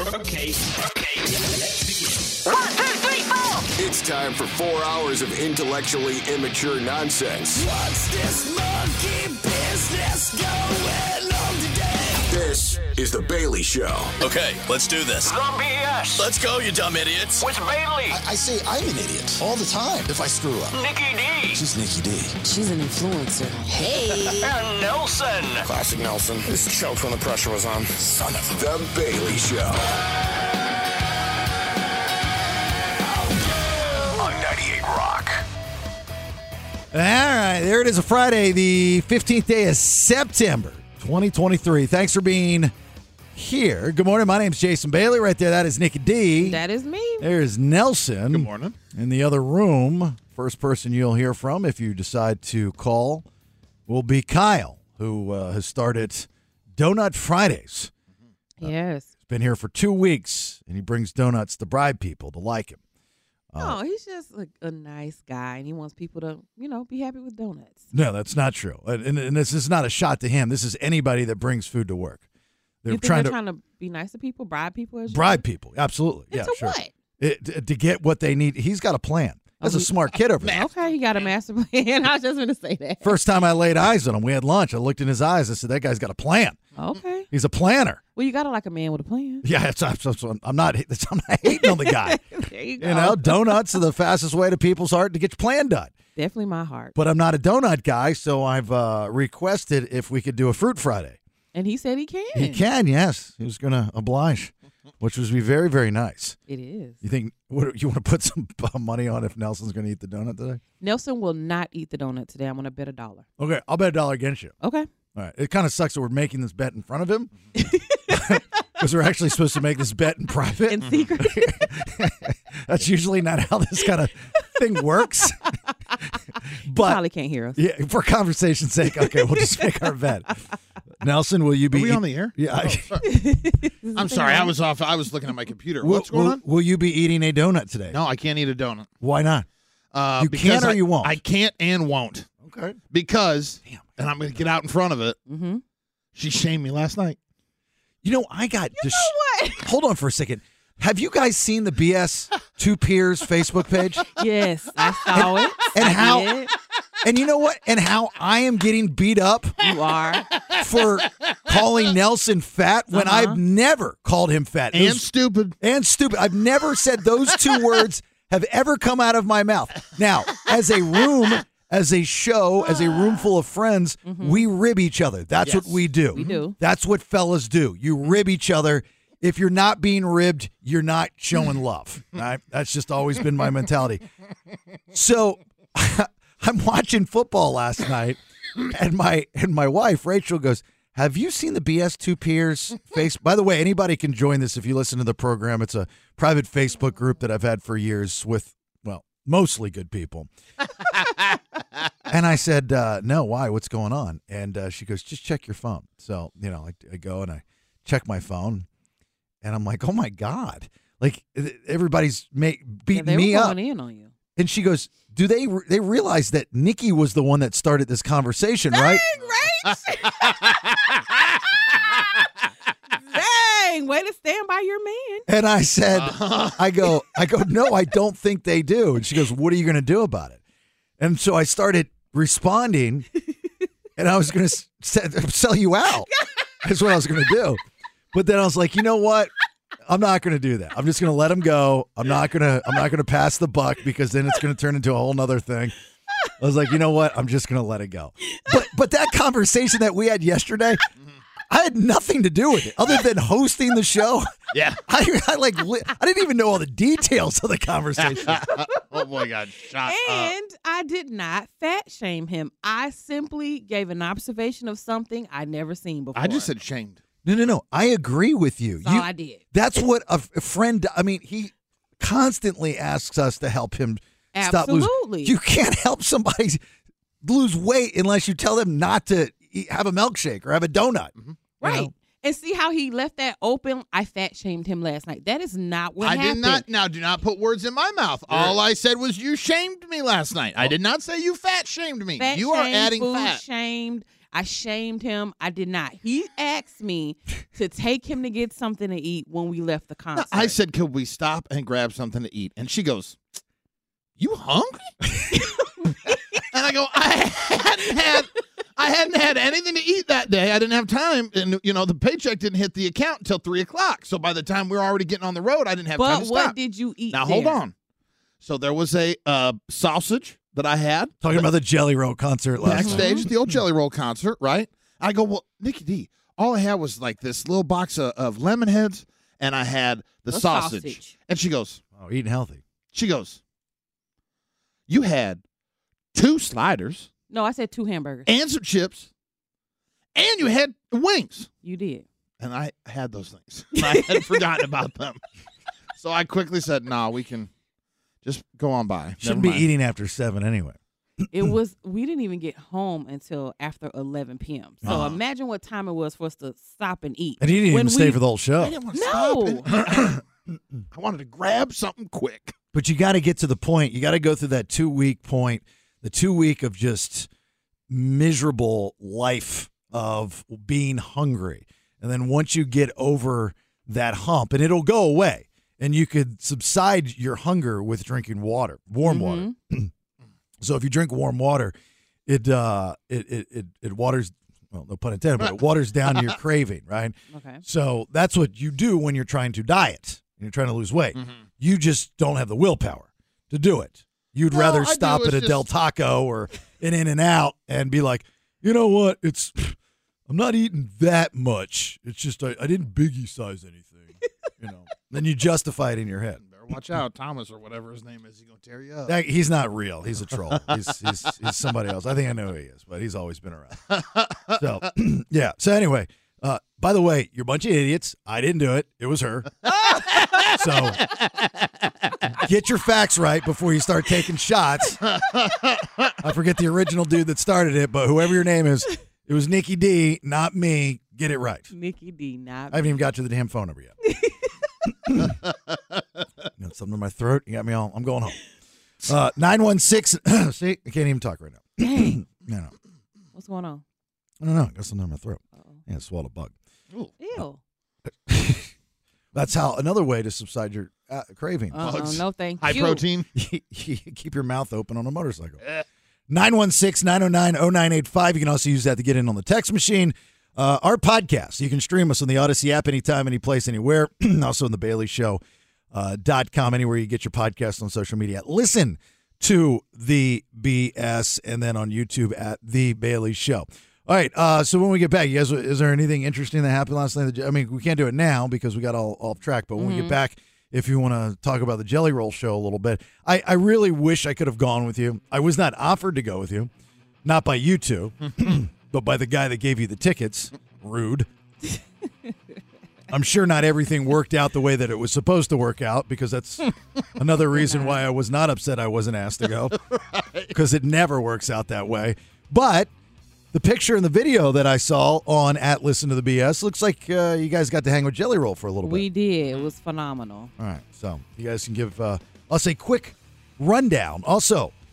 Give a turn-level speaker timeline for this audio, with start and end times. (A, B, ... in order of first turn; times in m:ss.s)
0:02.4-0:03.7 A
0:03.8-0:07.7 B
0:12.3-0:14.2 B
0:14.2-0:15.3 C
0:15.2-0:16.2 A
0:16.2-0:17.4 C
0:17.4-0:18.2 A
0:18.1-0:20.7 D
0:20.7-0:21.6 A
0:21.5-0:22.3 D
0:22.4-0:23.7 E
0:24.2-0:25.6 A
0:25.6-0:28.5 F
0:28.5-0:29.8 B
0:34.4-0:35.3 B
0:36.9-0:42.7 D
0:43.3-0:46.6 D
0:46.4-0:47.3 E
0:47.2-0:53.2 D
0:48.3-0:48.8 G
0:53.9-0:57.9 D
0:58.6-0:59.1 E
0:59.2-1:02.8 D
1:03.5-1:03.8 D
1:03.6-1:07.9 E
1:07.9-1:12.2 D
1:12.8-1:13.4 D
1:12.9-1:15.4 E
1:15.1-1:20.6 D
1:16.3-1:16.9 E
1:19.6-1:23.1 E
1:20.4-1:21.3 G
1:23.0-1:26.6 D
1:26.8-1:27.3 E
1:27.3-1:28.0 D
1:28.2-1:29.4 E
1:29.4-1:32.2 D
1:31.5-1:33.7 E
1:32.8-1:35.9 D
1:36.2-1:36.9 E
1:36.9-1:41.2 D
1:41.5-1:42.6 E
1:42.3-1:46.4 D
1:46.5-1:47.0 E
1:47.0-1:50.6 D
1:50.8-1:53.2 E
1:53.4-1:54.5 D
1:54.6-1:54.9 E
1:55.1-1:57.3 D
1:57.6-1:58.0 E
1:58.1-2:05.4 D
2:00.7-2:01.4 E
2:06.6-2:07.0 D
2:06.8-2:07.6 E
2:07.6-2:10.3 D
2:09.0-2:09.6 E
2:11.0-2:12.8 D
2:11.7-2:13.0 G
2:13.0-2:14.5 E
2:14.0-2:16.4 G
2:15.8-2:18.0 D
2:17.9-2:18.9 G
2:19.0-2:19.5 D
2:19.9-2:22.3 G
2:20.2-2:21.2 D
2:22.4-2:22.8 D
2:22.9-2:25.2 G
2:25.3-2:25.6 E
2:26.1-2:27.2 G
2:28.0-2:34.0 D
2:28.8-2:29.6 E
2:34.1-2:36.5 E
2:35.1-2:36.3 D
2:37.0-2:39.6 D
2:39.6-2:40.3 E
2:40.6-2:45.0 D
2:42.9-2:43.4 E
2:44.7-2:45.6 G
2:45.6-3:04.0 D
2:54.0-2:54.4 E
2:55.4-2:56.3 G
2:56.1-2:56.5 E
3:04.9-3:20.3 D
3:22.1-3:28.7 D
3:29.4-3:33.6 D
3:32.9-3:34.1 E
3:34.4-3:39.0 D
3:38.7-3:40.4 E
3:43.0-3:45.2 E
3:45.3-3:50.4 D
3:45.9-3:46.6 G
3:51.0-3:53.1 D
3:54.0-3:56.1 D
3:56.6-3:57.6 D
3:58.1-3:59.3 D
3:59.9-4:05.7 D
4:06.4-4:10.8 D
4:11.5-4:14.3 D
4:14.5-4:14.8 G
4:14.9-4:18.4 D
4:18.0-4:20.3 G
4:19.8-4:26.5 E
4:26.1-4:27.0 G
4:27.2-4:36.6 D
4:28.8-4:29.4 E
4:34.3-4:35.3 E
4:37.2-4:41.9 D
4:41.6-4:46.6 E
4:46.0-4:53.4 G
4:52.2-5:00.5 E
5:00.3-5:03.2 G
5:04.2-5:04.8 G
5:06.5-5:16.6 G
5:16.0-5:17.6 E
5:17.1-5:17.7 G
5:18.4-5:21.4 G
5:21.2-5:23.4 D
5:22.6-5:31.8 G
5:22.7-5:23.2 E
5:30.3-5:31.1 E
5:31.9-5:32.6 D
5:32.9-5:33.4 G
5:34.9-5:35.4 G
5:36.1-5:37.1 G
5:37.3-5:38.3 E
5:38.3-5:39.1 G
5:40.1-5:41.5 G
5:41.6-5:42.0 E
5:42.4-5:45.2 G
5:43.9-5:44.4 E
5:46.0-5:47.5 G
5:48.2-5:49.7 G
5:49.2-5:50.8 D
5:51.3-5:58.2 E
5:54.8-5:55.2 G
5:57.4-5:58.8 D
5:58.6-6:00.2 G
5:58.9-5:59.7 E
6:00.5-6:00.8 D
6:00.9-6:02.5 G
6:02.7-6:07.3 D
6:07.9-6:19.9 D
6:19.0-6:19.5 E
6:20.6-6:21.7 D
6:22.2-6:39.8 D
6:27.3-6:27.6 E
6:31.1-6:31.4 G
6:34.5-6:35.6 G
6:40.3-6:46.4 D
6:46.4-6:49.1 G
6:49.1-6:53.9 D
6:53.9-6:54.5 G
6:54.5-6:59.5 D
7:00.5-7:01.0 D
7:02.4-7:05.0 D
7:05.3-7:06.1 G
7:06.2-7:11.7 D
7:11.7-7:12.8 E
7:12.7-7:14.0 D
7:14.1-7:14.5 E
7:15.0-7:15.3 D
7:16.6-7:18.4 D
7:19.0-7:22.7 D
7:21.8-7:22.2 E
7:23.3-7:23.8 E
7:24.4-7:26.5 D
7:27.2-7:27.6 E
7:28.2-7:28.7 D
7:29.3-7:31.9 D
7:31.7-7:33.0 E
7:31.8-7:33.3 G
7:33.3-7:35.6 D
7:36.3-7:45.4 D
7:45.9-8:06.7 D
7:59.8-8:00.2 E
8:07.2-8:11.3 D
8:13.1-8:19.7 D
8:17.5-8:18.0 E
8:19.9-8:20.5 G
8:20.5-8:22.9 D
8:23.5-8:29.0 D
8:28.8-8:30.5 E
8:30.6-8:34.7 D